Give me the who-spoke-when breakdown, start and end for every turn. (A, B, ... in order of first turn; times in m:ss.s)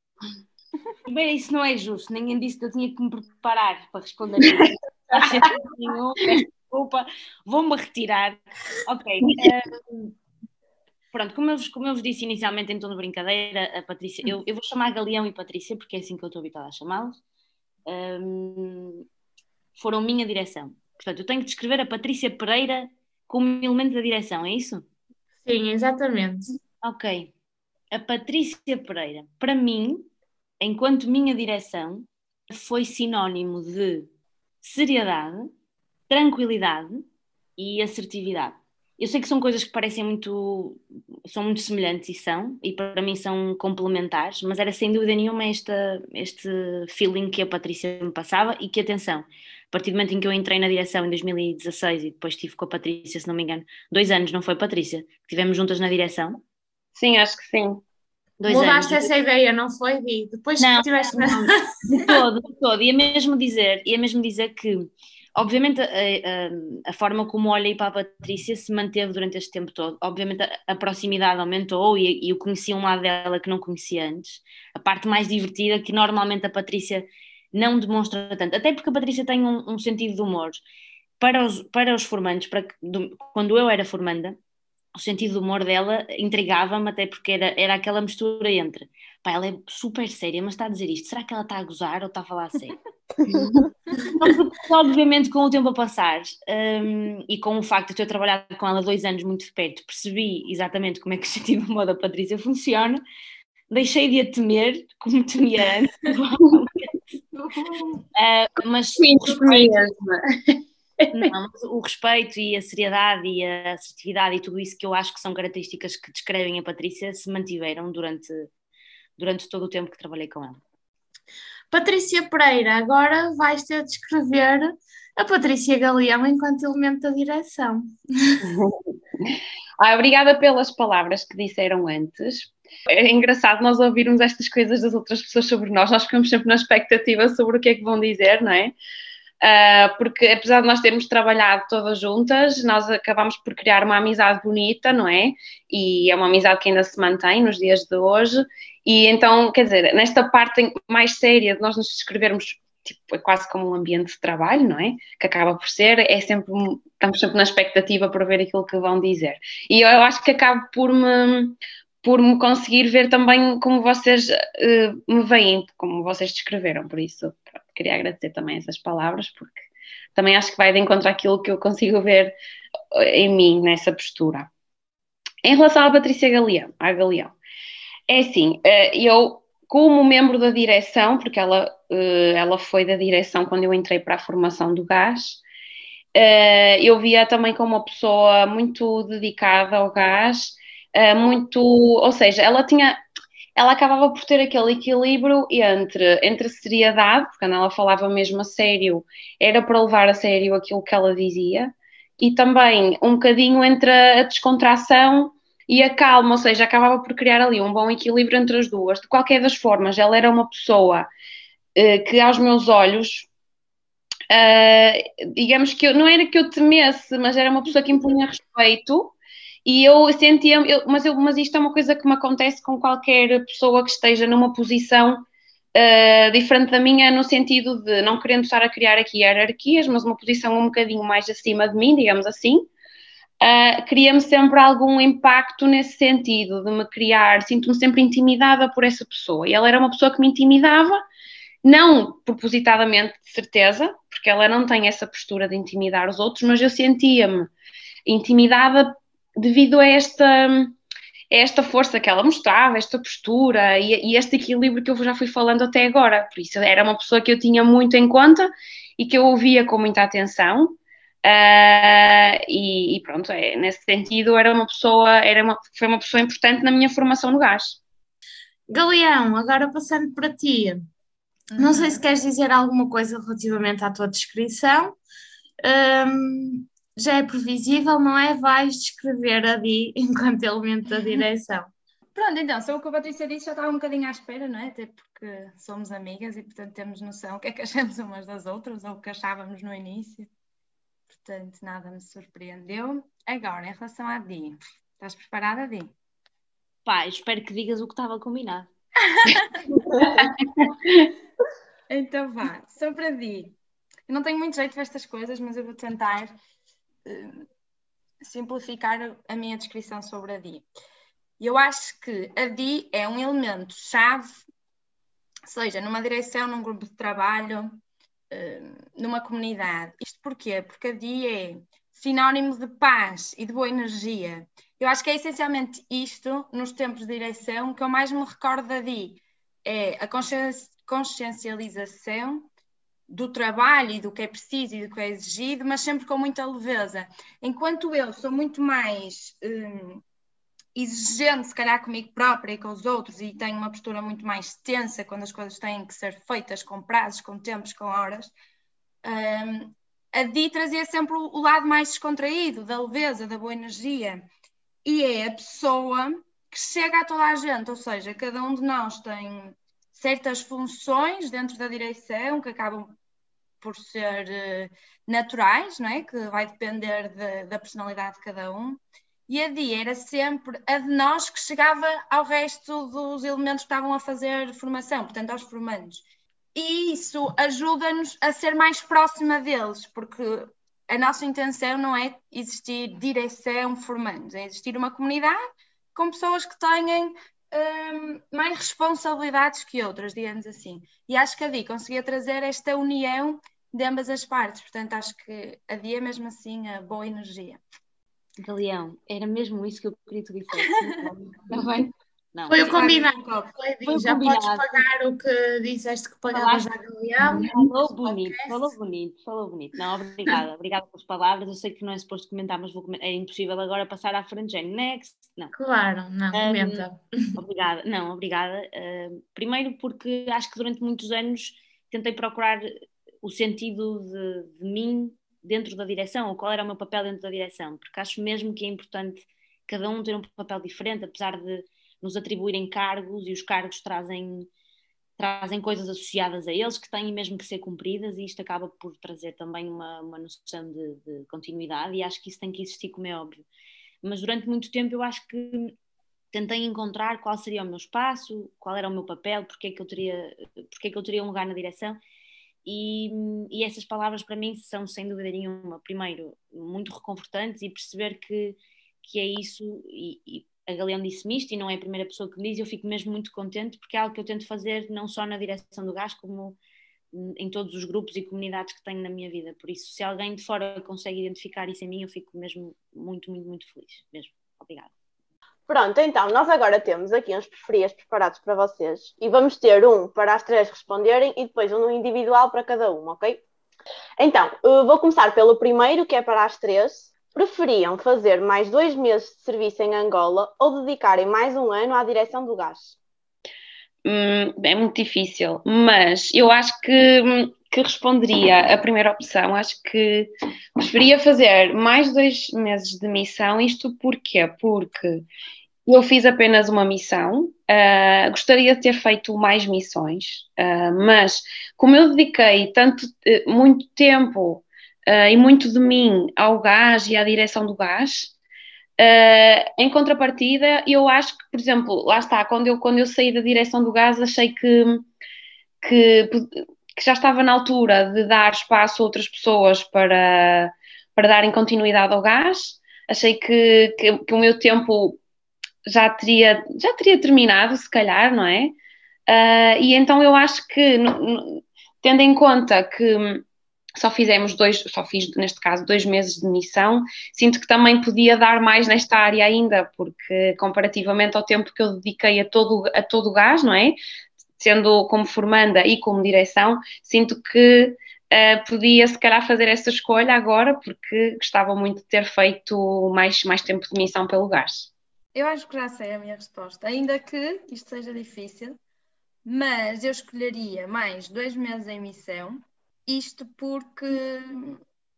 0:01.0-0:10.1 A
0:11.1-0:17.2 A
0:17.8-0:19.0 A
0:19.7-0:24.8 A
0:25.4-0:26.4 B
0:26.8-0:27.3 A
0:27.9-0:30.1 A
0:30.6-0:34.1 A
0:34.6-0:35.5 A
0:36.1-0:37.0 A
0:37.6-0:56.4 A
0:56.9-0:57.8 C
0:58.4-0:59.1 A
0:58.4-1:01.7 B
1:00.6-1:20.6 A
1:21.2-1:24.4 A
1:24.9-1:32.8 A
1:34.0-1:43.0 A
1:43.7-1:47.0 A
1:47.3-1:48.0 D
1:48.1-1:49.9 A
1:49.0-1:50.2 C
1:51.1-1:58.5 A
1:59.2-2:00.6 A
2:01.7-2:08.4 B
2:08.5-2:18.7 C
2:19.4-2:49.6 C
2:50.1-2:52.3 C
2:52.9-2:54.5 C
2:55.4-2:57.3 C
2:58.1-3:05.4 C
3:06.1-3:13.0 C
3:13.6-3:31.1 C
3:31.8-3:33.3 C
3:34.3-3:52.7 C
3:53.4-4:01.0 C
4:01.6-4:07.5 C
4:08.0-4:10.7 C
4:11.3-4:27.8 C
4:28.7-4:30.8 B
4:31.5-4:32.0 D
4:31.6-4:35.0 B
4:35.6-4:41.7 B
4:42.2-4:50.3 D
4:51.1-4:55.9 D
4:56.8-4:58.7 A
4:59.0-5:00.0 D
5:00.2-5:01.1 C
5:01.9-5:03.5 D
5:04.1-5:06.3 D
5:07.0-5:07.4 D
5:08.2-5:10.6 D
5:11.4-5:14.4 D
5:15.5-5:17.8 D
5:18.3-5:32.5 D
5:33.1-5:40.0 D
5:40.7-5:48.3 D
5:49.0-5:54.2 D
5:54.8-6:03.0 D
6:03.6-6:16.0 D
6:16.5-6:25.4 D
6:25.9-6:37.6 D
6:38.4-6:42.8 A
6:42.5-6:47.5 B
6:42.6-6:43.5 D
6:43.8-6:44.9 A
6:46.3-6:55.5 A
6:48.0-6:48.6 D
6:55.5-6:57.0 B
6:56.3-7:02.7 A
7:03.2-7:14.5 A
7:15.2-7:23.4 A
7:24.0-7:25.7 A
7:26.3-7:32.0 A
7:32.6-7:46.6 A
7:47.1-7:54.9 A
7:55.7-8:03.4 E
8:04.2-8:13.0 E
8:14.0-8:25.2 C
8:25.9-8:38.3 C
8:39.0-8:45.1 C
8:45.8-8:55.2 C
8:55.8-8:58.7 C
8:59.3-9:03.4 C
9:04.0-9:14.0 C
9:14.6-9:24.9 C
9:25.3-9:28.8 D
9:29.4-9:34.8 D